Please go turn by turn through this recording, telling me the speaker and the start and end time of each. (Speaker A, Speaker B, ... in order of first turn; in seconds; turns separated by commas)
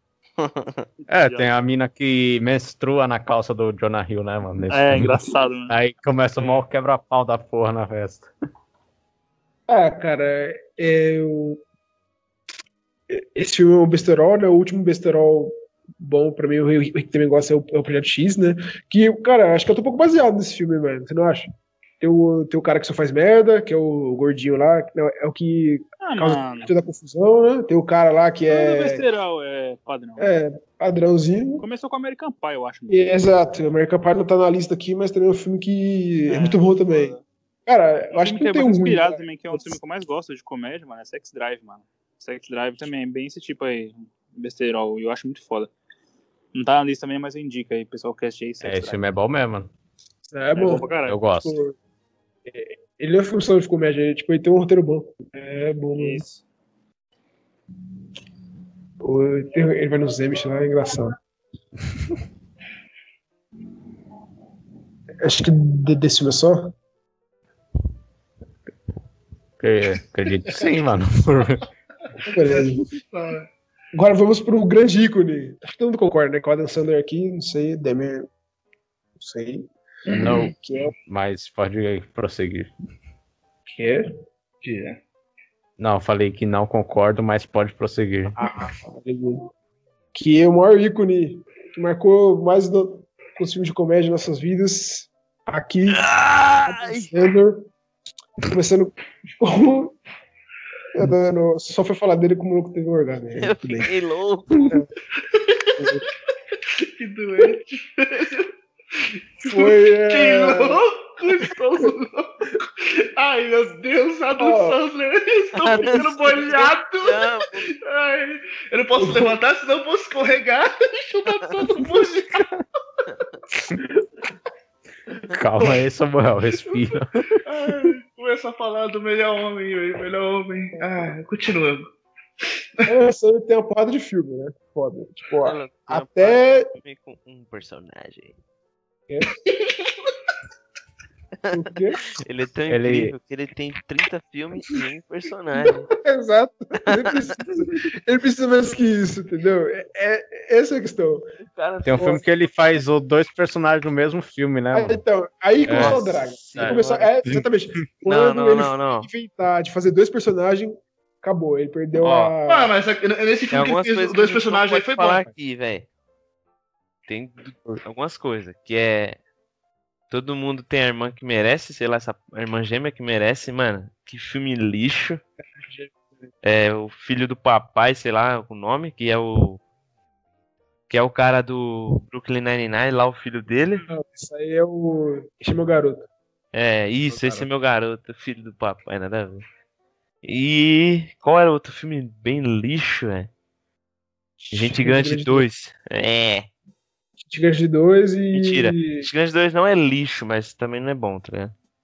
Speaker A: 0.4-0.9, Speaker B: 1.0-1.5, Speaker C: 1.1-5.2, Speaker B: 4.7-5.7, Speaker C: 5.7-8.3, Speaker D: 9.7-11.6, Speaker D: 13.1-21.5, Speaker D: 22.0-29.0, Speaker B: 26.0-26.7, Speaker B: 28.5-30.3, Speaker D: 30.2-31.6, Speaker B: 31.6-33.2, Speaker D: 32.9-39.8, Speaker B: 36.3-37.2, Speaker B: 38.1-45.7, Speaker B: 46.5-49.0, Speaker C: 48.6-49.7, Speaker D: 50.3-50.9, Speaker B: 50.5-51.2, Speaker C: 51.1-51.6, Speaker D: 51.4-51.8, Speaker D: 52.5-56.2, Speaker B: 56.0-56.4, Speaker D: 59.0-61.1, Speaker D: 65.2-66.7, Speaker C: 69.6-71.6, Speaker D: 72.2-72.9, Speaker E: 72.5-73.5, Speaker D: 73.9-78.3, Speaker D: 79.2-80.9, Speaker E: 80.1-80.5, Speaker C: 80.1-82.7, Speaker D: 83.7-84.0, Speaker E: 84.6-85.0, Speaker C: 85.8-88.4, Speaker D: 88.4-89.5, Speaker D: 90.1-96.1, Speaker A: 95.9-97.1, Speaker D: 96.6-97.7, Speaker D: 98.5-100.0, Speaker D: 100.9-103.9, Speaker A: 103.4-104.8, Speaker E: 105.3-105.9, Speaker D: 105.8-106.0, Speaker E: 106.7-122.5, Speaker D: 109.4-110.8, Speaker D: 114.4-114.8, Speaker A: 115.6-117.7, Speaker D: 115.8-116.1, Speaker D: 119.0-119.3, Speaker C: 125.3-127.4, Speaker E: 127.4-131.8, Speaker E: 132.4-132.8, Speaker D: 132.8-136.7, Speaker A: 135.4-138.3, Speaker E: 139.4-140.1, Speaker A: 141.4-145.9, Speaker D: 141.5-142.0, Speaker C: 142.7-143.1, Speaker D: 145.6-151.2, Speaker A: 146.9-147.4, Speaker A: 151.5-152.2, Speaker C: 151.8-155.0, Speaker D: 151.9-152.2, Speaker D: 154.7-162.7, Speaker C: 155.7-157.4, Speaker A: 155.7-157.1, Speaker A: 158.1-159.1, Speaker A: 161.9-162.3, Speaker E: 162.4-165.3, Speaker A: 163.5-165.9, Speaker A: 167.1-169.2, Speaker A: 170.1-175.2, Speaker D: 175.4-175.9, Speaker A: 176.4-179.6, Speaker A: 180.9-183.8, Speaker D: 183.9-186.1, Speaker A: 186.5-189.4, Speaker D: 187.1-187.4, Speaker A: 190.2-193.3, Speaker D: 194.4-195.4, Speaker A: 194.5-196.5, Speaker D: 197.2-199.1, Speaker A: 198.3-201.5